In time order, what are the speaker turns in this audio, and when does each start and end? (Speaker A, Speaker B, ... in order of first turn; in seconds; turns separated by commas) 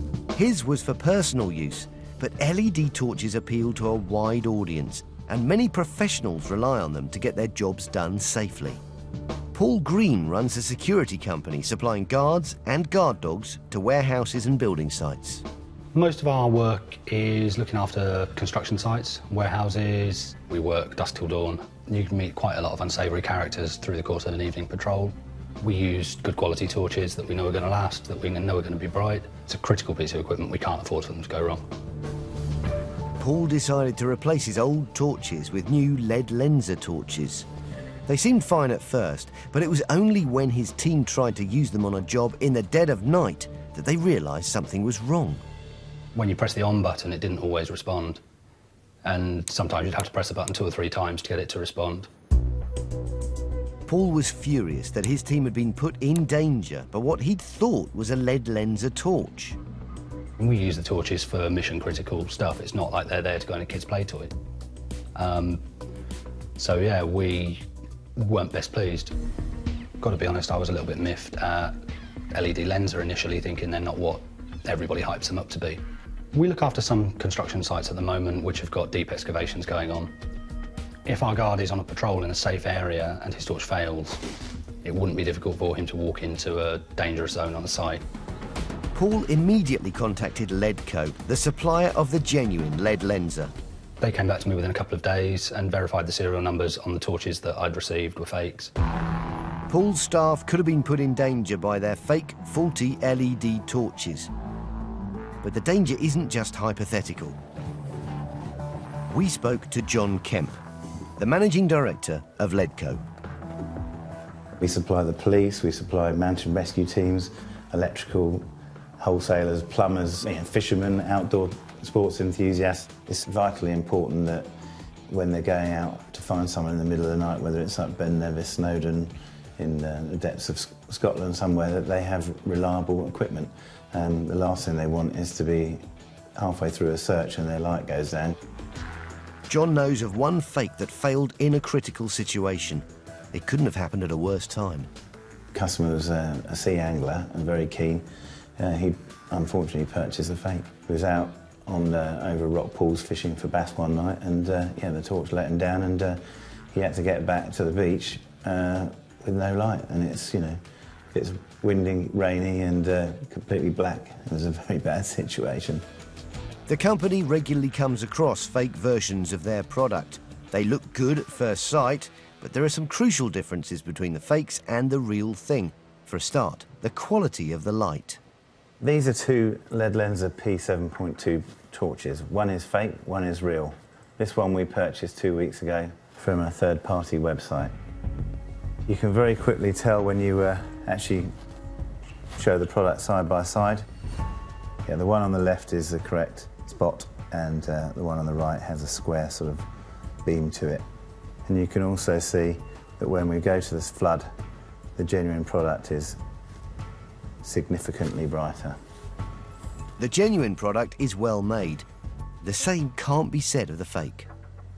Speaker A: 0.3-8.8, Speaker A: 9.5-15.4, Speaker B: 15.9-31.6, Speaker A: 33.2-37.5, Speaker A: 38.1-45.4, Speaker B: 46.1-48.2, Speaker B: 49.0-52.1, Speaker A: 53.9-59.6, Speaker B: 60.4-64.3, Speaker B: 65.2-65.6, Speaker B: 66.6-67.6, Speaker B: 68.2-69.1, Speaker B: 70.0-71.8, Speaker B: 72.3-75.8, Speaker B: 76.3-80.1, Speaker B: 81.1-84.2, Speaker B: 84.8-88.0, Speaker A: 88.9-93.5, Speaker B: 94.0-98.7, Speaker A: 99.7-104.3, Speaker A: 105.4-107.4, Speaker A: 109.1-110.6, Speaker A: 111.2-113.0, Speaker C: 114.6-118.5, Speaker C: 119.0-124.5, Speaker C: 125.1-135.9, Speaker C: 136.4-138.4, Speaker A: 139.5-144.9, Speaker C: 145.5-148.1, Speaker C: 148.6-160.6, Speaker C: 161.1-165.8, Speaker A: 166.7-178.2, Speaker C: 178.8-187.7, Speaker C: 188.9-191.3, Speaker C: 192.4-193.8, Speaker C: 194.9-199.7, Speaker C: 200.2-200.8, Speaker C: 201.5-204.3, Speaker C: 205.0-206.2, Speaker C: 207.4-208.8, Speaker A: 210.0-211.9, Speaker A: 212.4-214.3